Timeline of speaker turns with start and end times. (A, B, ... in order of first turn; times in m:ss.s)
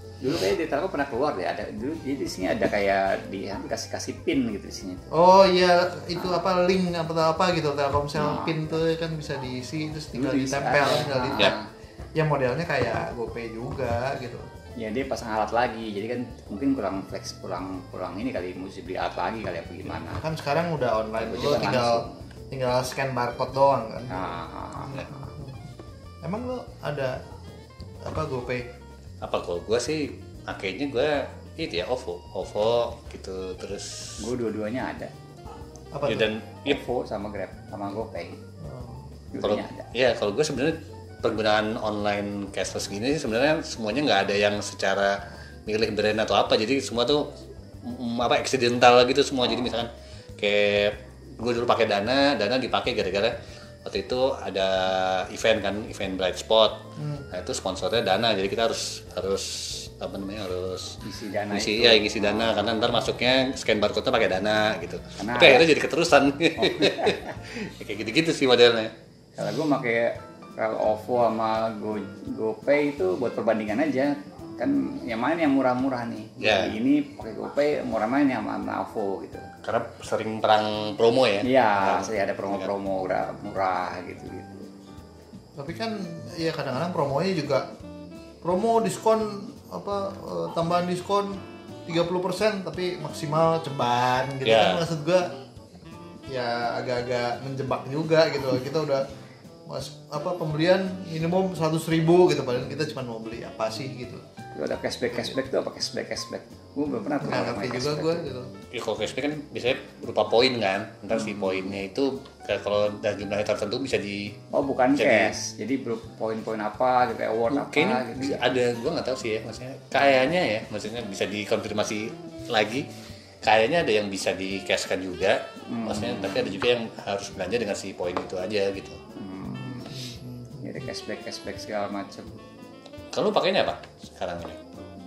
0:00.2-0:05.1 A
0:05.1-0:11.6 B
0:08.2-0:08.6 A
0:10.1-0:11.7 A
0:12.2-0:14.5 B
0:14.8-0:20.2 A
0:19.9-0:25.6 B
0:21.2-0:22.3 A
0:24.1-0:25.3 A
0:26.2-0:27.2 B
0:28.0-0:28.7 B
0:29.2-0:34.2 C
0:34.2-0:35.1 A
0:35.9-0:36.3 B
0:36.1-0:36.8 C
0:36.6-0:38.4 A
0:38.6-0:39.1 B
0:39.3-0:39.9 A
0:39.4-0:47.3 C
0:47.8-1:08.9 C
0:57.0-0:57.3 B
1:01.0-1:02.9 A
1:05.2-1:05.7 A
1:06.6-1:07.4 A
1:09.4-1:19.5 A
1:16.4-1:16.8 C
1:19.6-1:22.7 C
1:21.4-1:24.7 A
1:25.6-1:27.7 B
1:28.4-1:35.3 B
1:34.4-1:34.8 C
1:36.3-1:39.1 B
1:39.7-1:44.2 B
1:44.6-1:48.3 A
1:47.2-1:48.5 B
1:48.7-1:54.4 C
1:54.5-1:58.5 A
1:55.0-1:55.3 C
1:57.5-2:02.9 C
2:03.4-2:09.0 C
2:05.7-2:06.5 A
2:09.2-2:10.0 A
2:09.5-2:10.9 B
2:10.6-2:12.4 A
2:13.1-2:14.8 C